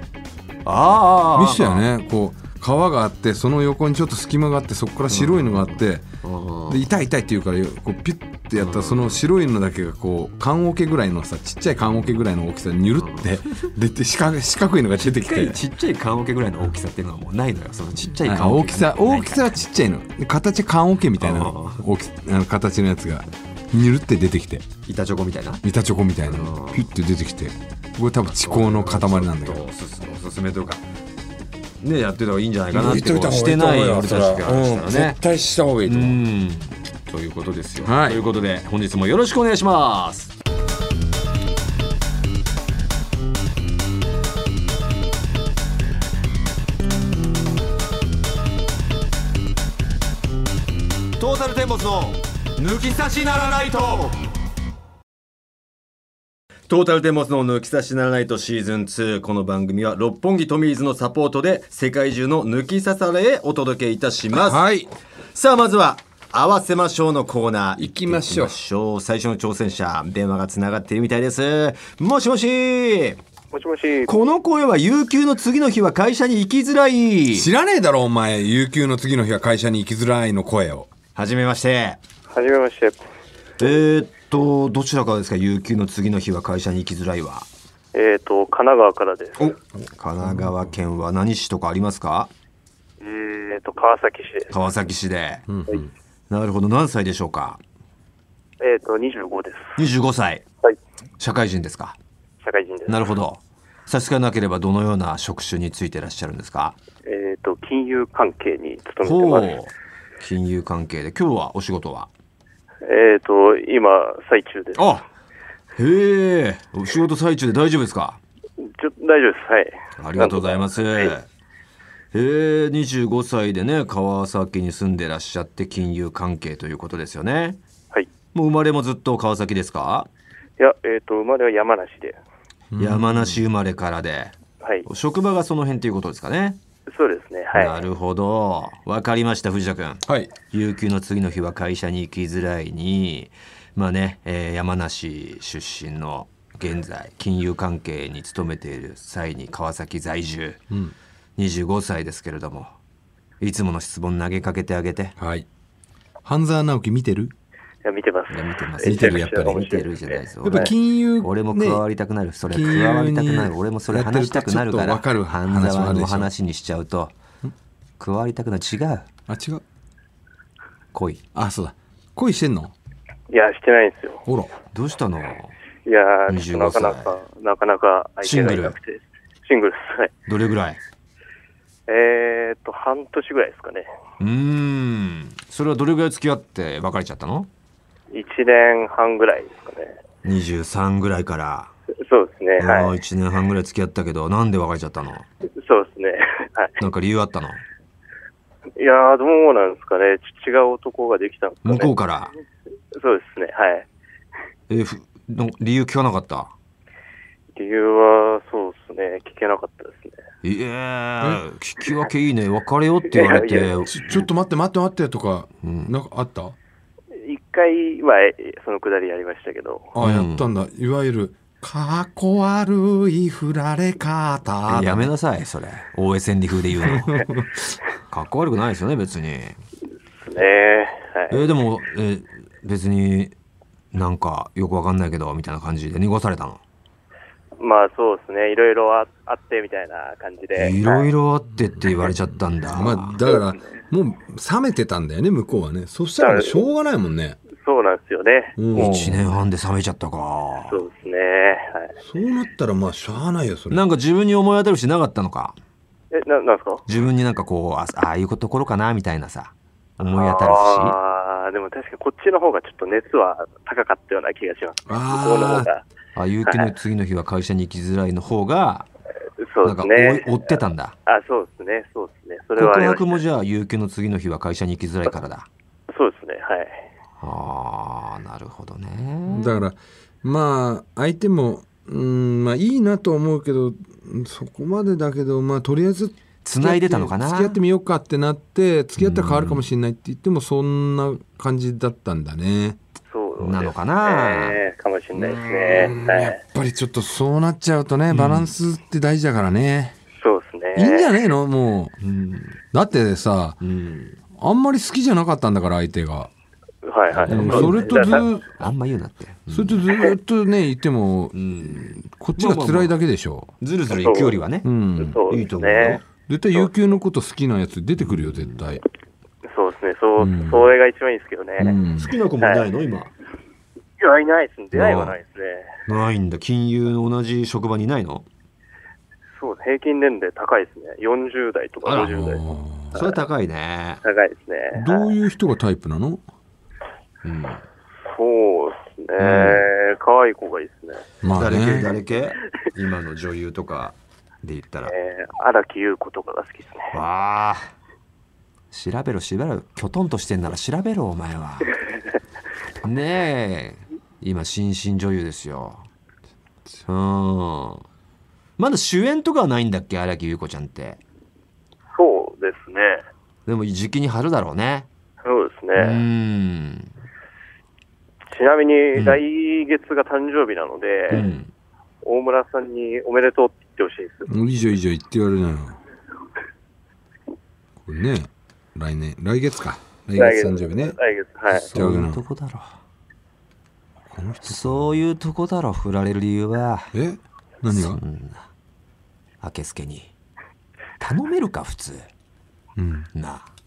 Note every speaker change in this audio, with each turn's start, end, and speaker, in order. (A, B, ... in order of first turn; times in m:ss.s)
0:00.6-0:01.8 A
0:01.3-0:06.1 B
0:05.1-0:06.8 A
0:06.7-0:15.6 B
0:08.6-0:09.2 A
0:13.0-0:13.7 A
0:15.0-0:19.5 A
0:18.2-0:24.7 B
0:21.2-0:21.8 A
0:24.8-0:25.6 A
0:25.6-0:29.6 B
0:26.2-0:26.9 A
0:28.3-0:30.8 A
0:31.8-0:35.2 A
0:32.7-0:36.2 B
0:35.8-0:40.3 A
0:37.8-0:38.2 B
0:51.2-0:54.2 A
0:56.7-1:04.6 A
1:04.3-1:04.9 B
1:05.3-1:13.2 A
1:07.8-1:08.6 B
1:13.5-1:14.1 C
1:14.0-1:17.5 A
1:17.3-1:20.9 B
1:21.1-1:22.0 A
1:22.3-1:23.0 C
1:23.6-1:27.5 A
1:27.9-1:29.5 C
1:29.4-1:32.3 A
1:30.2-1:30.7 B
1:33.0-1:34.6 C
1:34.5-1:35.4 A
1:35.5-1:35.9 B
1:36.3-1:37.6 A
1:38.6-1:39.8 C
1:39.8-1:40.4 A
1:41.2-1:42.0 A
1:42.4-1:43.1 C
1:42.9-1:46.8 A
1:47.0-1:49.5 C
1:49.0-1:52.1 A
1:52.8-1:55.0 C
1:54.8-1:55.0 A
1:55.8-1:58.2 A
1:58.6-2:01.1 C
2:00.0-2:01.3 A
2:02.1-2:07.6 A
2:08.3-2:10.1 A
2:10.6-2:12.2 C
2:12.7-2:13.4 B
2:12.8-2:14.3 A
2:14.8-2:16.6 A
2:16.9-2:17.8 C
2:17.5-2:30.6 A
2:20.0-2:20.3 B
2:30.7-2:30.9 B
2:31.4-2:32.7 A
2:33.4-2:35.1 A
2:35.2-2:35.5 B
2:36.2-2:37.3 B
2:37.8-2:40.7 C
2:38.3-2:47.1 A
2:38.8-2:39.7 B
2:40.4-2:41.8 B
2:42.5-2:46.3 B
2:48.0-2:49.1 A
2:49.3-2:49.6 B
2:50.9-2:51.2 A
2:51.3-2:52.7 B
2:53.3-2:54.2 C
2:54.2-2:54.5 B
2:54.7-2:55.5 A
2:55.8-3:00.1 C
2:56.3-2:57.1 A
2:58.2-2:58.8 A
3:00.3-3:00.8 A
3:01.9-3:03.9 C
3:04.2-3:07.5 A
3:08.1-3:10.0 C
3:10.2-3:11.7 A
3:12.0-3:12.9 C
3:12.6-3:15.2 A
3:15.6-3:16.8 C
3:16.8-3:17.6 A
3:18.8-3:21.9 C
3:21.6-3:22.3 A
3:22.9-3:23.8 C
3:24.7-3:26.5 A
3:27.5-3:30.2 C
3:30.4-3:34.3 A
3:33.1-3:33.7 C
3:33.9-3:36.6 B
3:35.6-3:35.9 A
3:37.2-3:39.9 C
3:39.9-3:45.1 B
3:40.0-3:40.5 A
3:44.6-3:47.3 A
3:46.8-3:47.8 B
3:48.1-3:49.6 A
3:50.2-3:51.5 C
3:51.3-3:53.3 A
3:53.9-3:56.6 A
3:57.6-4:01.1 C
4:00.5-4:03.2 A
4:02.7-4:07.4 B
4:03.2-4:03.6 C
4:06.2-4:06.6 C
4:07.6-4:08.9 C
4:08.6-4:09.3 B
4:08.7-4:10.8 A
4:10.7-4:11.9 C
4:12.0-4:13.8 B
4:13.7-4:15.6 A
4:16.1-4:16.8 C
4:16.9-4:21.0 A
4:20.0-4:25.8 C
4:24.9-4:25.7 B
4:26.2-4:28.9 A
4:29.4-4:33.2 C
4:29.6-4:30.9 A
4:32.6-4:35.5 A
4:35.9-4:36.8 C
4:37.2-4:39.6 A
4:39.3-4:52.8 B
4:46.4-4:47.6 A
4:49.0-4:49.6 A
4:53.1-4:56.4 C
4:53.4-4:54.6 A
4:55.2-4:56.0 A
4:55.4-5:00.0 B
4:58.1-4:58.5 A
5:00.2-5:01.1 C
5:00.7-5:01.9 B
5:02.0-5:02.6 A
5:02.7-5:03.6 B
5:03.6-5:04.2 A
5:04.3-5:06.3 B
5:06.8-5:08.2 C
5:07.2-5:08.5 B
5:07.2-5:09.9 A
5:09.5-5:13.5 B
5:11.3-5:13.0 A
5:13.6-5:14.7 A
5:14.0-5:14.4 C
5:14.6-5:15.2 B
5:15.0-5:16.0 C
5:15.2-5:16.0 A
5:16.2-5:18.8 B
5:18.0-5:18.6 A
5:19.5-5:21.8 C
5:20.2-5:20.7 B
5:21.6-5:22.1 B
5:22.0-5:23.1 A
5:24.0-5:25.7 C
5:24.7-5:25.2 A
5:25.8-5:28.2 A
5:29.4-5:32.4 C
5:31.8-5:32.2 A
5:32.0-5:33.0 B
5:32.9-5:34.0 A
5:34.0-5:35.1 C
5:34.7-5:36.2 B
5:37.2-5:37.6 A
5:38.0-5:41.0 C
5:39.2-5:39.7 A
5:41.2-5:41.9 B
5:41.3-5:44.9 A
5:44.9-5:46.9 C
5:46.9-5:47.7 A
5:48.7-5:51.7 A
5:52.8-5:55.9 A
5:56.8-5:57.8 A
5:58.6-6:01.0 A
6:01.9-6:03.0 C
6:03.5-6:04.9 A
6:05.2-6:06.0 C
6:05.8-6:06.9 A
6:08.3-6:11.3 C
6:09.0-6:09.2 A
6:11.1-6:11.5 A
6:12.0-6:14.3 C
6:14.3-6:15.8 B
6:17.8-6:21.0 B
6:20.1-6:21.7 C
6:21.5-6:22.8 A
6:21.7-6:22.2 B
6:24.1-6:25.0 B
6:24.4-6:26.9 A
6:26.9-6:28.0 B
6:27.7-6:28.5 A
6:29.4-6:30.1 A
6:31.0-6:32.1 A
6:32.8-6:33.1 B
6:33.1-6:33.4 A